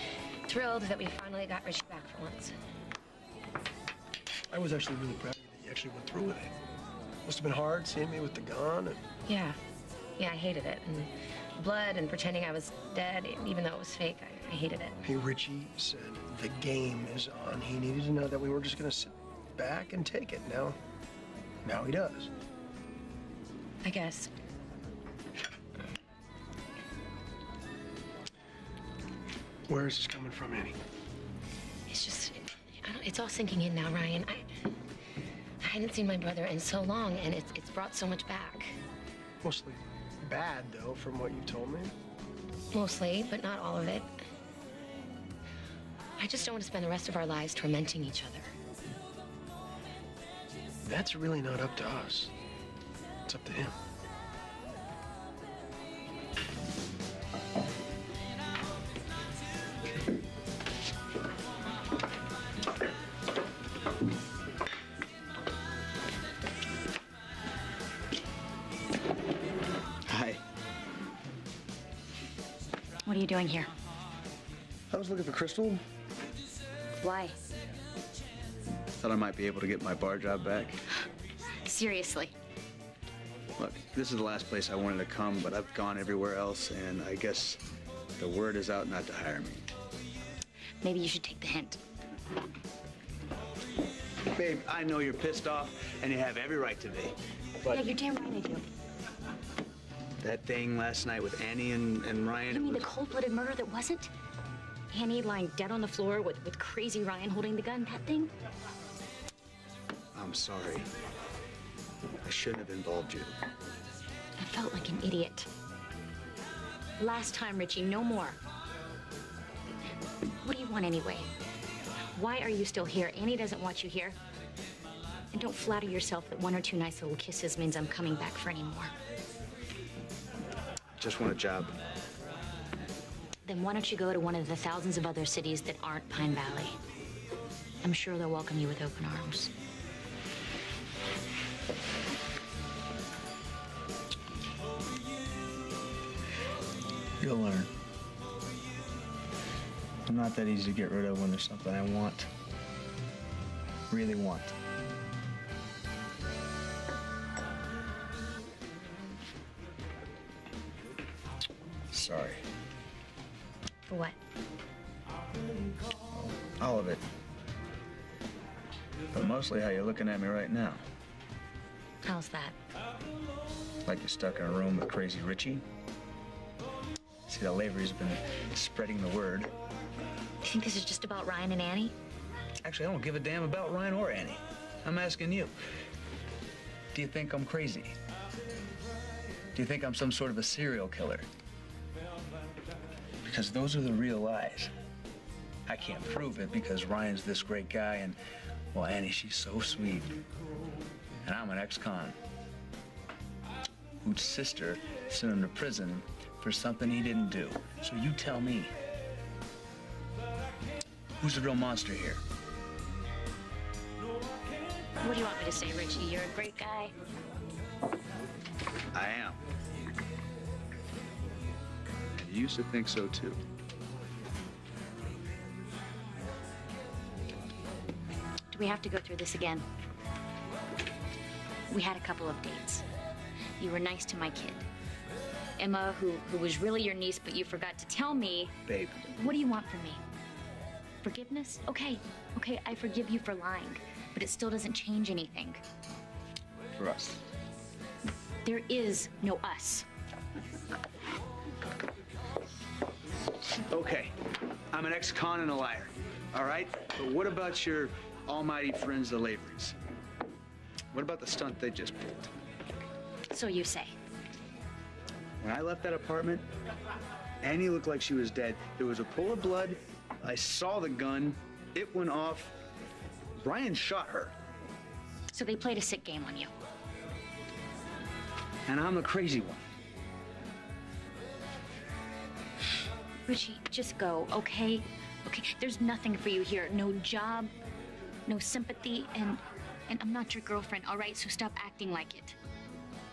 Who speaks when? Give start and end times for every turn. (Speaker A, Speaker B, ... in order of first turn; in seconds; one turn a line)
Speaker A: 0.5-2.5
Speaker B: 4.5-6.5
Speaker B: 7.3-9.0
Speaker A: 9.3-9.6
Speaker A: 10.2-15.0
Speaker B: 15.1-20.8
Speaker B: 21.6-22.3
Speaker A: 23.8-24.3
Speaker B: 29.7-30.8
Speaker A: 31.9-34.5
Speaker A: 35.6-38.8
Speaker B: 39.4-41.9
Speaker A: 42.7-44.1
Speaker A: 46.2-48.5
Speaker B: 50.8-52.3
Speaker B: 53.3-53.7
Speaker C: 70.1-70.4
Speaker D: 73.0-73.7
Speaker C: 74.9-75.8
Speaker D: 77.0-77.4
Speaker C: 79.0-80.8
Speaker D: 81.6-82.3
Speaker C: 83.6-87.6
Speaker C: 88.2-89.7
Speaker D: 90.8-91.8
Speaker C: 94.3-97.9
Speaker D: 97.7-98.7
Speaker C: 100.2-102.9
Speaker D: 102.5-104.1
Speaker D: 104.9-108.3
Speaker C: 110.1-110.9
Speaker C: 112.2-113.4
Speaker D: 114.4-115.5
Speaker D: 117.0-118.4
Speaker D: 120.4-121.3
Speaker D: 122.2-124.2
Speaker D: 125.3-128.9
Speaker C: 131.0-131.8
Speaker D: 133.4-136.8
Speaker D: 137.8-139.5
Speaker C: 147.2-147.7
Speaker C: 150.1-152.3
Speaker C: 153.9-154.5
Speaker C: 161.9-162.4
Speaker C: 166.1-167.0
Speaker C: 169.1-170.8
Speaker D: 172.0-172.6
Speaker C: 173.9-175.6
Speaker C: 177.3-179.5
Speaker D: 180.4-181.9
Speaker C: 182.6-185.5
Speaker C: 186.9-187.9
Speaker C: 189.6-191.3
Speaker C: 193.2-194.7
Speaker C: 195.7-198.2
Speaker C: 198.7-200.2
Speaker C: 201.2-202.2
Speaker C: 204.0-208.7
Speaker C: 211.2-212.2
Speaker D: 215.0-216.9
Speaker C: 218.9-219.4
Speaker C: 222.1-223.4
Speaker D: 228.5-229.7
Speaker D: 231.7-232.8
Speaker D: 233.6-234.7
Speaker D: 235.6-238.5
Speaker C: 238.7-239.1
Speaker D: 239.1-240.0
Speaker D: 241.0-245.6
Speaker C: 246.8-247.3
Speaker D: 248.4-249.9
Speaker C: 253.6-254.1
Speaker C: 254.7-259.8
Speaker C: 260.9-262.3
Speaker D: 263.3-263.9
Speaker C: 265.4-266.4
Speaker C: 267.4-272.6
Speaker C: 273.4-274.3
Speaker D: 275.3-276.5
Speaker C: 278.7-279.6
Speaker D: 283.3-287.5
Speaker D: 288.3-292.4